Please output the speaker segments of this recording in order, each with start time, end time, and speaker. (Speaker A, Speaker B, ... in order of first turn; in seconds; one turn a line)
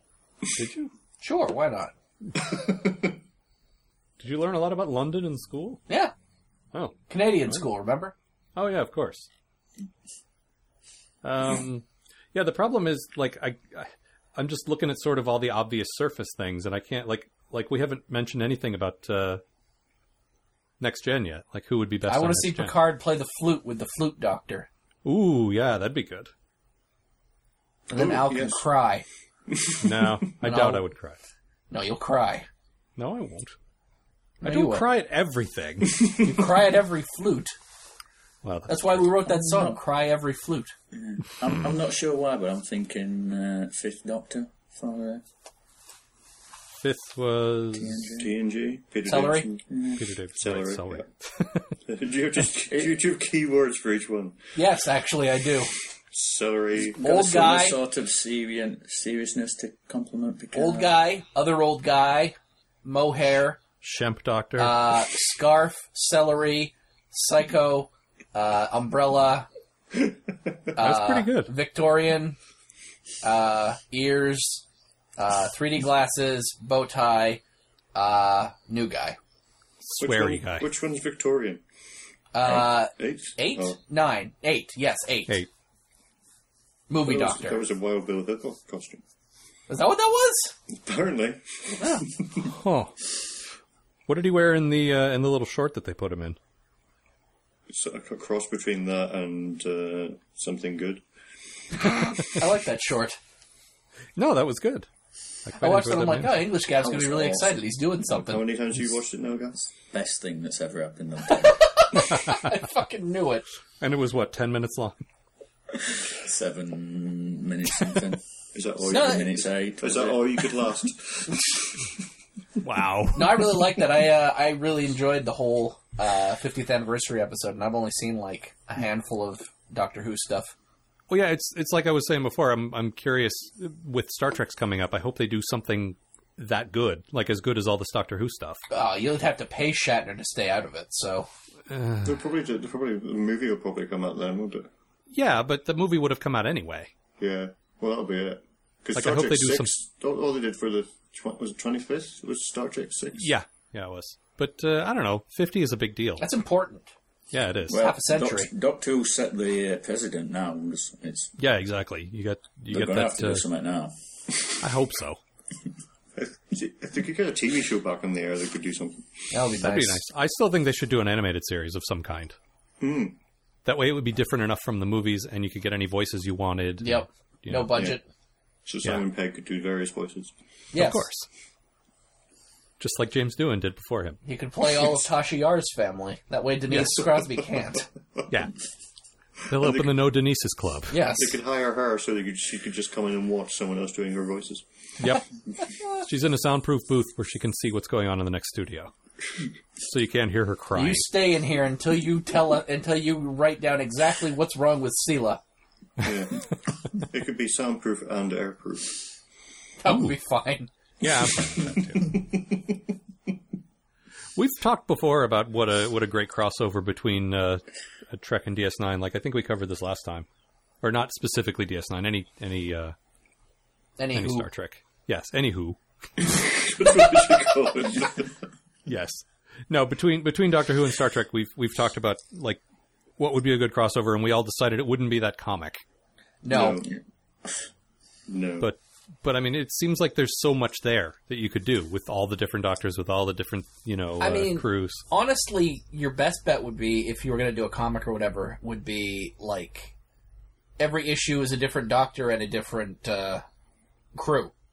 Speaker A: 0.6-0.9
Speaker B: 1.2-1.9
Speaker C: 2.4-3.1
Speaker A: 4.2-5.8
Speaker A: 6.7-7.6
Speaker B: 7.1-8.1
Speaker A: 8.6-9.3
Speaker A: 11.2-19.4
Speaker A: 20.8-22.8
Speaker B: 22.1-24.7
Speaker A: 25.0-26.3
Speaker B: 27.9-29.1
Speaker C: 27.9-28.6
Speaker C: 29.5-30.3
Speaker A: 29.8-31.2
Speaker B: 30.4-30.8
Speaker B: 31.7-32.5
Speaker A: 33.0-33.5
Speaker B: 34.4-34.9
Speaker A: 34.4-36.0
Speaker B: 36.1-37.5
Speaker A: 38.4-39.0
Speaker B: 38.7-40.7
Speaker D: 39.2-39.8
Speaker D: 40.9-45.2
Speaker A: 46.8-48.0
Speaker D: 47.7-48.4
Speaker C: 48.1-49.6
Speaker B: 49.0-49.5
Speaker D: 49.7-50.0
Speaker A: 50.0-51.7
Speaker C: 50.4-51.0
Speaker C: 51.8-54.4
Speaker D: 52.7-53.0
Speaker B: 54.5-55.7
Speaker C: 56.1-57.0
Speaker D: 57.0-61.0
Speaker B: 57.0-57.8
Speaker B: 60.5-63.6
Speaker A: 63.8-64.8
Speaker B: 64.6-69.5
Speaker B: 70.8-72.4
Speaker A: 70.8-71.5
Speaker B: 73.2-74.6
Speaker B: 75.2-77.4
Speaker B: 77.9-79.2
Speaker A: 79.8-80.7
Speaker C: 80.0-81.6
Speaker B: 82.3-85.3
Speaker C: 82.4-83.8
Speaker B: 86.9-87.6
Speaker C: 87.0-89.0
Speaker B: 89.7-90.5
Speaker C: 90.8-92.5
Speaker A: 92.5-92.9
Speaker A: 94.1-96.4
Speaker C: 97.7-101.0
Speaker B: 102.2-103.2
Speaker A: 104.2-104.9
Speaker A: 105.5-106.6
Speaker B: 105.6-108.4
Speaker D: 106.8-107.6
Speaker C: 108.1-109.7
Speaker D: 109.9-111.7
Speaker B: 111.4-113.5
Speaker A: 113.8-115.0
Speaker D: 116.1-118.2
Speaker C: 118.5-121.8
Speaker D: 118.7-120.7
Speaker B: 118.9-119.3
Speaker A: 122.6-123.4
Speaker B: 123.1-130.5
Speaker A: 131.1-138.6
Speaker B: 138.7-141.3
Speaker A: 141.7-142.1
Speaker C: 142.0-144.7
Speaker A: 145.1-146.9
Speaker C: 147.2-153.3
Speaker A: 148.9-149.7
Speaker A: 153.2-156.2
Speaker B: 156.2-156.9
Speaker A: 157.3-157.8
Speaker D: 157.7-161.3
Speaker B: 157.7-158.5
Speaker A: 161.4-163.4
Speaker D: 162.7-163.9
Speaker A: 164.6-165.2
Speaker C: 166.2-169.1
Speaker B: 169.3-170.0
Speaker A: 169.6-172.3
Speaker C: 172.8-173.2
Speaker A: 173.6-177.9
Speaker B: 176.8-178.0
Speaker C: 178.6-180.3
Speaker B: 180.7-181.1
Speaker A: 180.7-181.3
Speaker A: 182.8-184.2
Speaker B: 184.2-187.9
Speaker A: 189.5-191.0
Speaker C: 189.6-190.1
Speaker B: 190.9-191.4
Speaker C: 191.1-194.6
Speaker A: 195.0-195.2
Speaker A: 195.8-198.9
Speaker A: 199.8-201.1
Speaker B: 200.7-205.4
Speaker C: 206.0-209.0
Speaker B: 209.8-210.7
Speaker A: 209.9-210.1
Speaker A: 211.0-212.2
Speaker C: 212.0-212.6
Speaker A: 214.3-220.2
Speaker A: 220.8-222.9
Speaker B: 224.0-224.5
Speaker A: 224.1-225.8
Speaker C: 226.2-228.4
Speaker A: 228.9-232.6
Speaker A: 233.2-235.8
Speaker B: 236.4-236.8
Speaker C: 236.5-236.9
Speaker C: 238.3-238.7
Speaker A: 238.6-245.0
Speaker B: 244.2-249.9
Speaker B: 250.8-253.4
Speaker B: 254.1-254.5